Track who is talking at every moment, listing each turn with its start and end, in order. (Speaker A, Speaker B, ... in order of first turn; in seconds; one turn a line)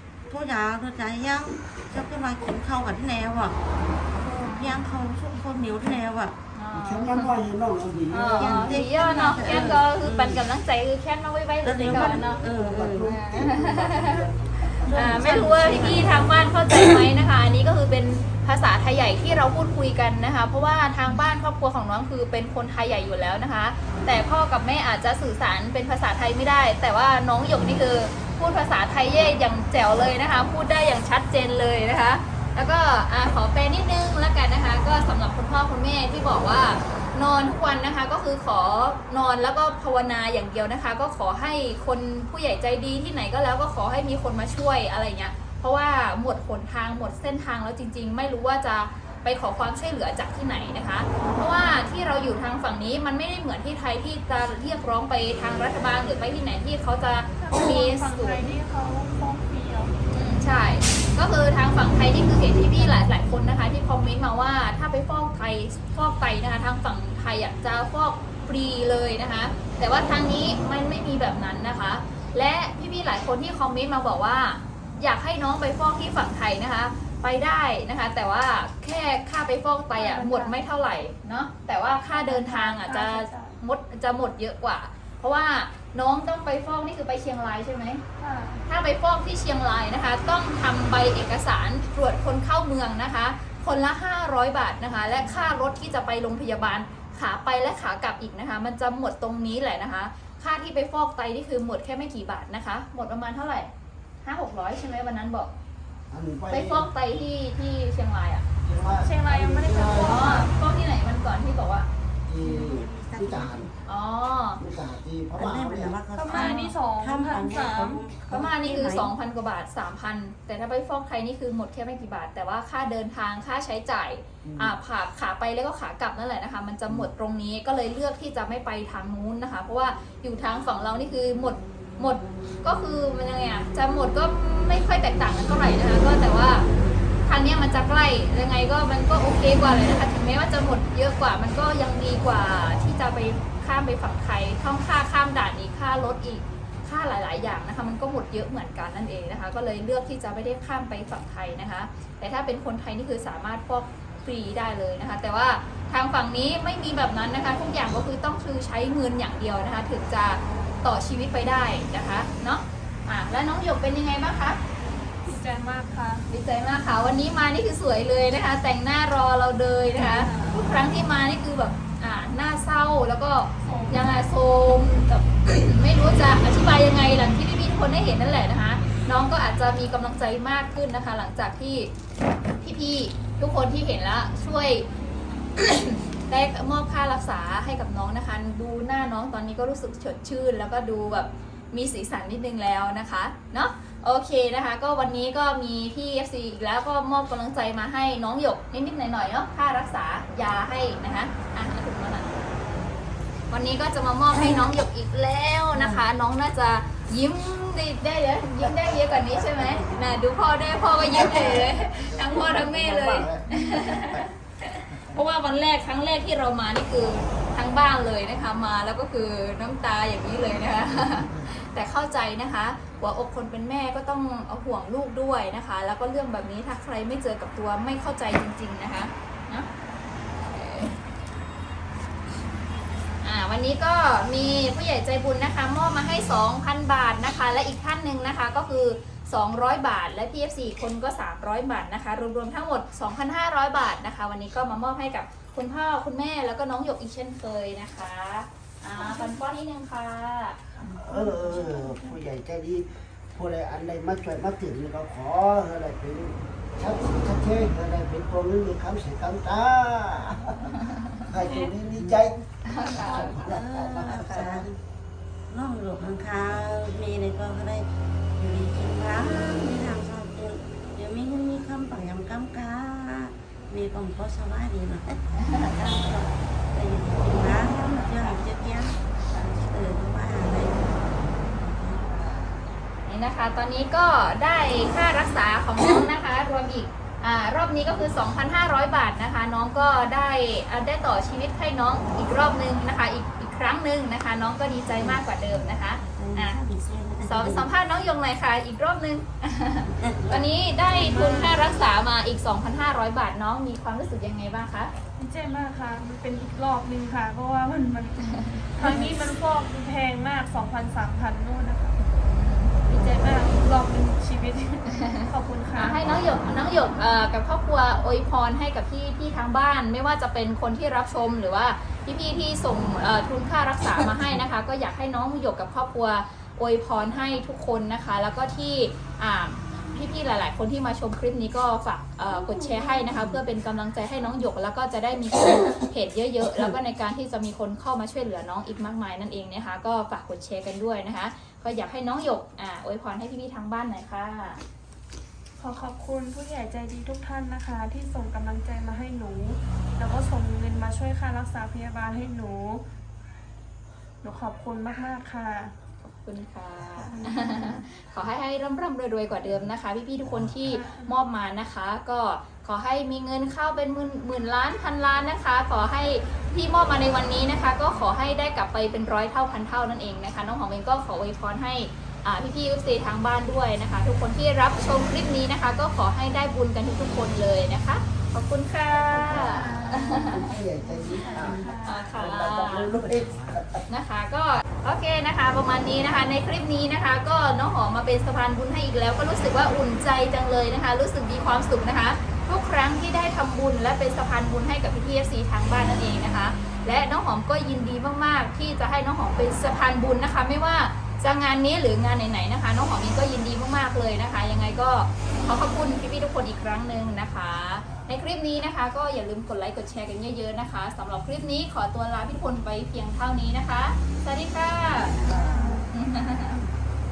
Speaker A: 0.3-3.6
Speaker A: 4.1-6.4
Speaker B: 4.3-4.8
Speaker B: 6.5-7.3
Speaker C: 6.7-8.9
Speaker B: 8.1-12.4
Speaker A: 8.2-10.4
Speaker C: 9.5-9.8
Speaker A: 11.6-13.2
Speaker C: 11.8-15.7
Speaker B: 13.0-14.2
Speaker A: 14.8-17.0
Speaker B: 14.9-58.5
Speaker D: 57.4-60.0
Speaker B: 60.1-88.0
Speaker D: 79.9-80.5
Speaker D: 82.1-83.6
Speaker D: 88.2-88.6
Speaker B: 88.7-103.7
Speaker B: 104.2-105.5
Speaker C: 106.1-106.9
Speaker B: 106.5-108.4
Speaker C: 108.6-110.4
Speaker D: 109.0-110.5
Speaker B: 109.9-111.9
Speaker C: 112.2-113.7
Speaker A: 112.4-113.7
Speaker B: 113.8-114.6
Speaker C: 114.6-116.0
Speaker A: 115.4-119.1
Speaker D: 116.1-118.0
Speaker B: 116.3-116.7
Speaker B: 118.3-136.7
Speaker C: 124.4-124.7
Speaker B: 137.2-164.6
Speaker D: 165.2-166.3
Speaker B: 166.3-181.9
Speaker D: 169.9-170.6
Speaker D: 173.6-174.2
Speaker B: 182.6-184.9
Speaker B: 185.6-202.5
Speaker B: 203.5-229.7
Speaker A: 204.3-204.7
Speaker A: 205.7-206.0
Speaker C: 211.1-214.3
Speaker C: 214.9-215.2
Speaker B: 230.4-230.9
Speaker B: 233.2-250.6
Speaker D: 249.0-249.3
Speaker C: 250.8-264.7
Speaker D: 251.1-252.2
Speaker D: 261.3-261.7
Speaker B: 262.6-263.5
Speaker A: 262.9-264.8
Speaker A: 265.5-267.9
Speaker A: 268.4-282.6
Speaker B: 275.3-276.1
Speaker B: 277.5-278.4
Speaker B: 283.1-296.6
Speaker A: 294.9-295.2
Speaker A: 296.0-297.7
Speaker B: 297.2-304.9
Speaker A: 299.9-300.4
Speaker D: 300.9-301.5
Speaker D: 305.2-312.0
Speaker B: 308.2-308.7
Speaker A: 308.8-309.2
Speaker B: 312.2-312.7
Speaker D: 312.9-316.0
Speaker B: 315.0-344.6
Speaker A: 332.3-333.3
Speaker D: 345.6-352.8
Speaker D: 354.2-355.7
Speaker B: 356.2-380.6
Speaker D: 357.3-357.8
Speaker D: 360.6-361.1
Speaker C: 378.9-383.9
Speaker D: 380.8-382.1
Speaker A: 381.4-381.7
Speaker B: 381.8-383.0
Speaker B: 383.9-416.6
Speaker A: 415.1-415.9
Speaker D: 415.5-415.8